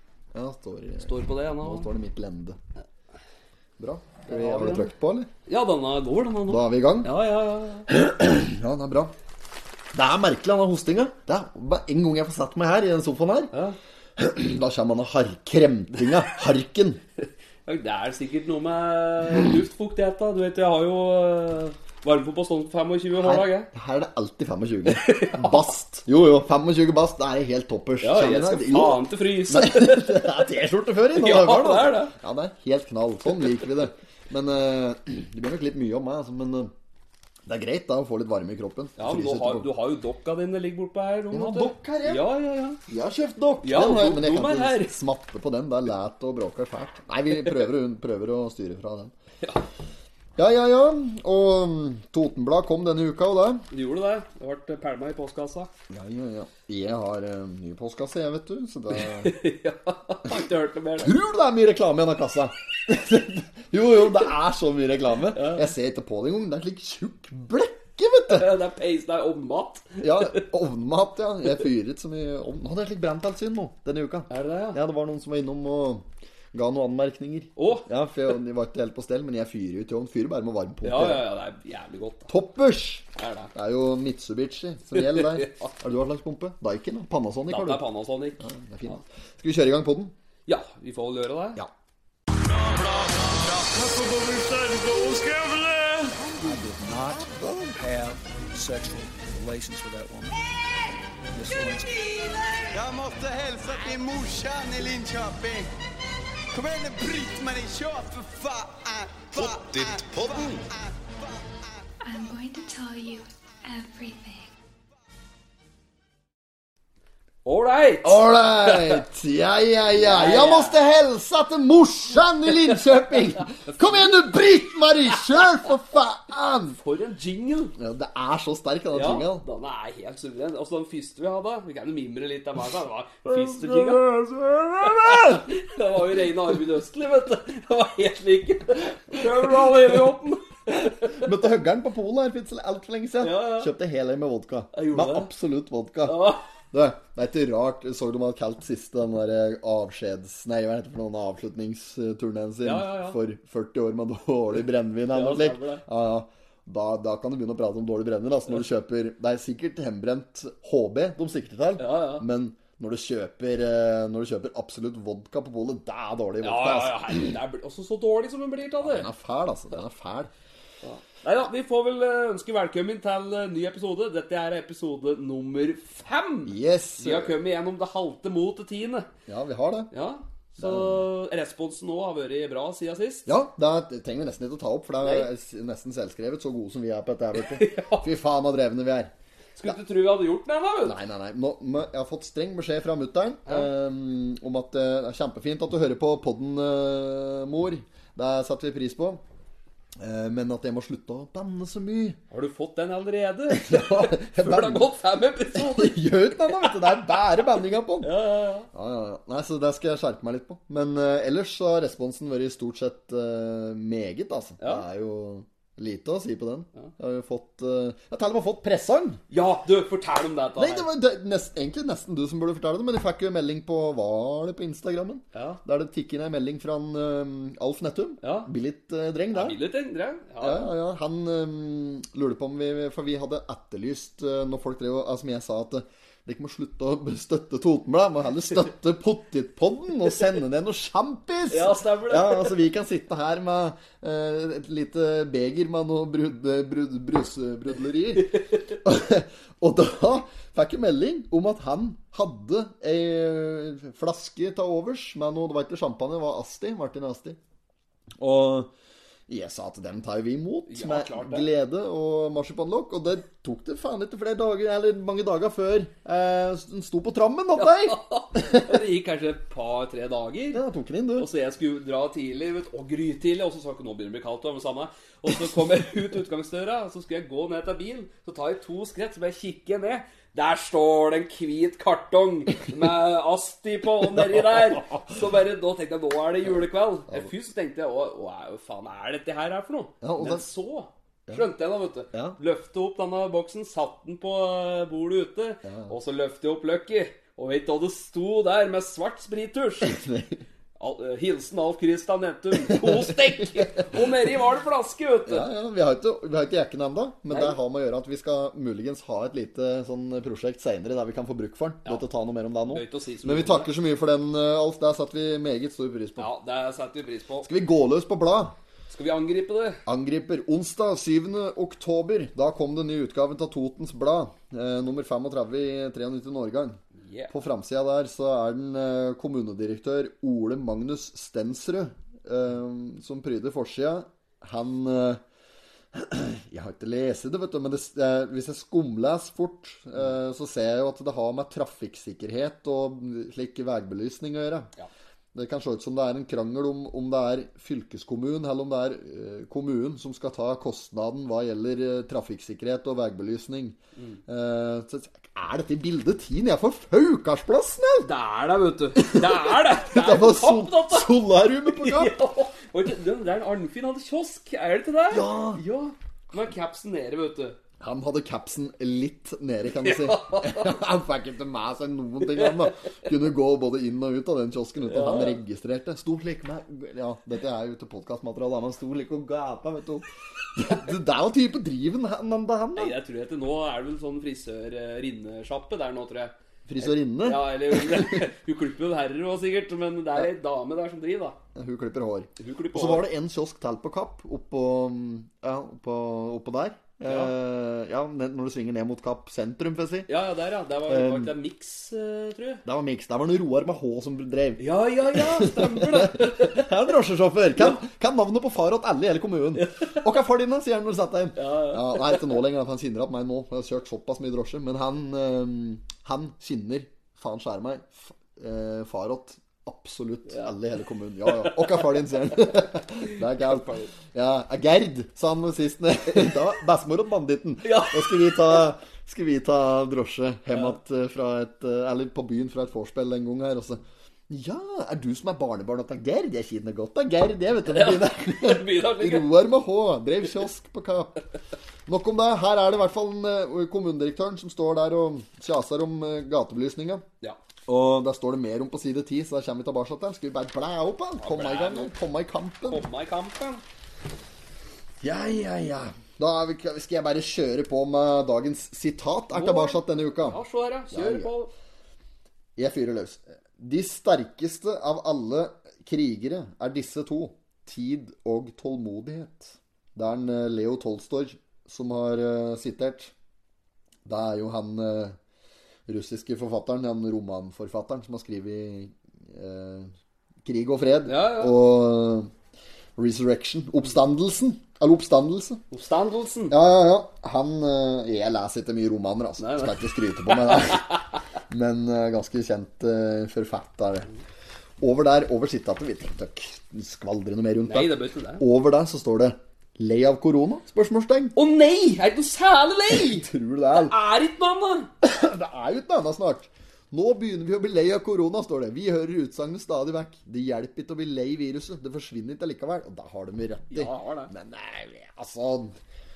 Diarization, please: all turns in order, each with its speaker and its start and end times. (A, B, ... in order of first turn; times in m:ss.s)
0:00.3-0:02.6 A
0:01.0-0:01.9 B
0:03.8-0:05.3 A
0:04.3-0:04.9 B
0:05.5-0:07.9 B
0:06.5-0:07.1 A
0:07.9-0:09.1 A
0:09.9-0:13.5 A
0:13.5-0:13.8 B
0:14.2-0:17.0 A
0:17.2-0:23.7 B
0:23.2-0:36.7 A
0:24.9-0:25.7 B
0:28.0-0:30.3 B
0:31.1-0:32.1 B
0:37.4-0:39.7 A
0:39.0-0:42.8 B
0:41.3-0:42.2 A
0:42.9-0:49.1 A
0:43.6-0:45.0 B
0:50.4-0:53.6 A
0:53.7-0:55.7 B
0:55.9-0:59.3 A
0:58.9-1:01.1 B
1:01.0-1:08.5 A
1:05.3-1:05.6 B
1:08.3-1:10.4 B
1:10.0-1:21.2 A
1:14.3-1:14.8 B
1:17.6-1:17.9 B
1:20.8-1:22.3 B
1:22.3-1:27.8 A
1:23.2-1:23.5 B
1:24.9-1:25.7 B
1:27.5-1:29.0 B
1:28.4-1:30.1 A
1:30.5-1:31.6 B
1:32.3-1:40.6 C
1:36.1-1:37.8 A
1:41.3-1:41.9 C
1:42.7-1:45.7 D
1:46.5-1:51.6 D
1:52.0-1:54.5 E
1:57.4-1:59.0 B
1:58.0-2:06.8 A
2:00.0-2:00.8 B
2:03.5-2:04.1 B
2:06.8-2:07.7 B
2:07.8-2:09.4 A
2:08.9-2:14.0 B
2:13.2-2:15.5 A
2:14.8-2:21.3 B
2:19.2-2:19.6 A
2:20.8-2:47.3 A
2:23.2-2:23.7 B
2:24.7-2:25.3 B
2:26.0-2:26.4 B
2:32.6-2:33.2 B
2:35.1-2:35.8 B
2:41.8-2:42.2 B
2:46.4-2:49.1 B
2:48.8-2:50.3 A
2:50.8-2:59.1 B
2:56.4-2:57.3 A
2:59.3-2:59.9 A
2:59.9-3:03.3 B
3:00.6-3:01.0 A
3:03.2-3:09.1 A
3:05.0-3:05.3 B
3:07.4-3:08.1 B
3:09.6-3:11.0 B
3:10.8-3:19.2 A
3:20.0-3:22.2 A
3:22.3-3:26.1 B
3:23.5-3:24.9 A
3:25.5-3:28.2 A
3:28.0-3:28.7 B
3:28.7-3:39.2 A
3:34.6-3:34.8 B
3:39.3-3:40.9 B
3:40.6-3:49.6 A
3:45.3-3:45.6 B
3:48.2-3:48.5 B
3:49.3-3:50.7 B
3:50.4-4:17.4 A
4:01.5-4:02.6 B
4:08.3-4:08.6 B
4:18.2-4:18.7 A
4:19.3-4:28.8 A
4:20.7-4:21.5 B
4:27.6-4:30.6 B
4:30.5-4:31.3 A
4:31.2-5:00.0 B
4:44.4-4:44.9 A
4:50.0-4:50.5 A
4:55.6-4:55.9 A
4:59.8-5:00.4 A
5:00.8-5:05.5 B
5:02.6-5:04.1 A
5:05.3-5:16.3 A
5:07.3-5:07.6 B
5:12.7-5:13.7 B
5:16.2-5:17.5 B
5:17.4-5:18.5 A
5:18.9-5:19.8 B
5:19.8-5:26.8 A
5:27.0-5:27.3 B
5:27.3-5:35.2 A
5:35.9-5:44.7 A
5:45.3-5:58.1 A
5:58.0-6:01.1 B
5:59.0-6:02.1 A
6:01.6-6:07.6 B
6:05.1-6:05.6 A
6:07.8-6:22.9 A
6:09.8-6:10.8 B
6:12.2-6:13.1 B
6:14.8-6:15.4 B
6:22.8-6:31.4 B
6:26.7-6:28.2 A
6:31.5-6:40.1 A
6:32.4-6:33.0 B
6:37.0-6:37.3 B
6:40.1-6:42.6 B
6:40.9-6:41.3 A
6:42.6-7:21.2 A
6:44.6-6:46.7 B
6:49.6-6:50.0 B
6:51.4-6:52.3 B
7:01.3-7:01.9 B
7:03.0-7:03.9 B
7:07.6-7:08.6 B
7:17.7-7:19.3 B
7:21.9-7:27.0 A
7:27.7-7:32.8 A
7:31.2-7:31.9 B
7:32.7-7:33.6 B
7:35.0-7:41.3 A
7:39.3-7:41.5 B
7:42.6-7:53.1 A
7:54.0-7:55.2 A
7:55.9-7:59.9 A
8:00.4-8:02.3 A
8:01.1-8:01.6 B
8:03.0-8:05.6 A
8:05.7-8:06.6 B
8:06.5-8:14.1 A
8:09.4-8:11.0 B
8:14.8-8:21.3 A
8:17.6-8:18.4 B
8:21.3-8:24.9 B
8:22.9-8:23.9 A
8:25.0-8:35.7 A
8:33.7-8:34.3 B